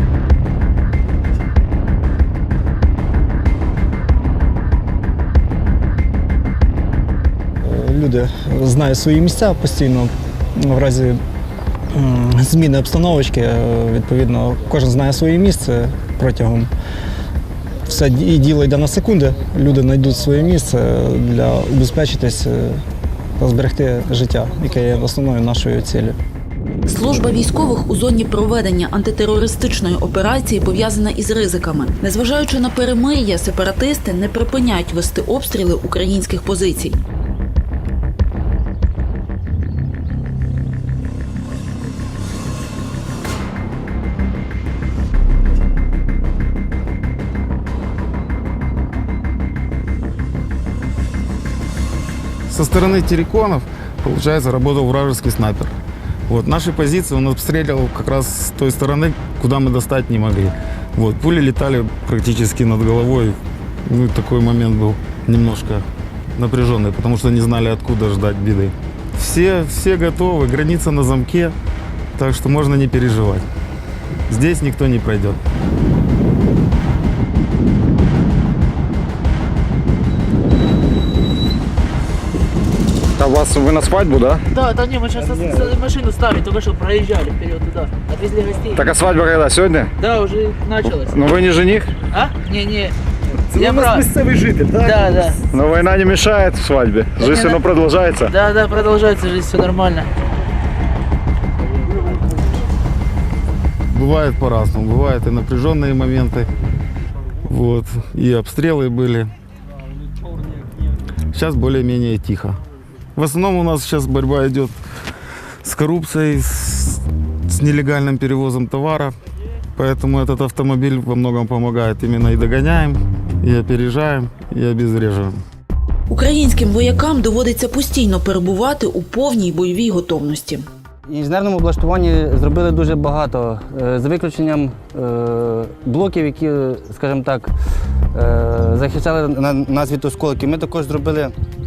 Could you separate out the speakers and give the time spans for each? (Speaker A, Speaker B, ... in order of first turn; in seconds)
Speaker A: 7.6-11.2, 11.9-16.7, 17.9-22.8, 23.4-26.1
Speaker B: 26.9-37.0, 126.1-130.6
Speaker C: 52.5-55.7, 56.3-63.4, 63.9-65.8, 66.3-71.5, 72.2-73.4, 74.3-75.4, 103.9-106.5, 107.5-109.3, 111.3-112.6, 113.2-114.8, 115.6-119.1, 119.8-125.4
Speaker D: 83.2-84.4, 88.8-89.9, 91.0-91.9, 95.5-98.3
Speaker E: 84.5-88.9, 90.0-91.3, 92.1-92.9, 93.5-95.4, 97.3-97.6, 98.3-100.1
Speaker F: 85.2-85.7, 93.6-94.1, 94.7-95.0, 131.1-137.5, 138.1-141.3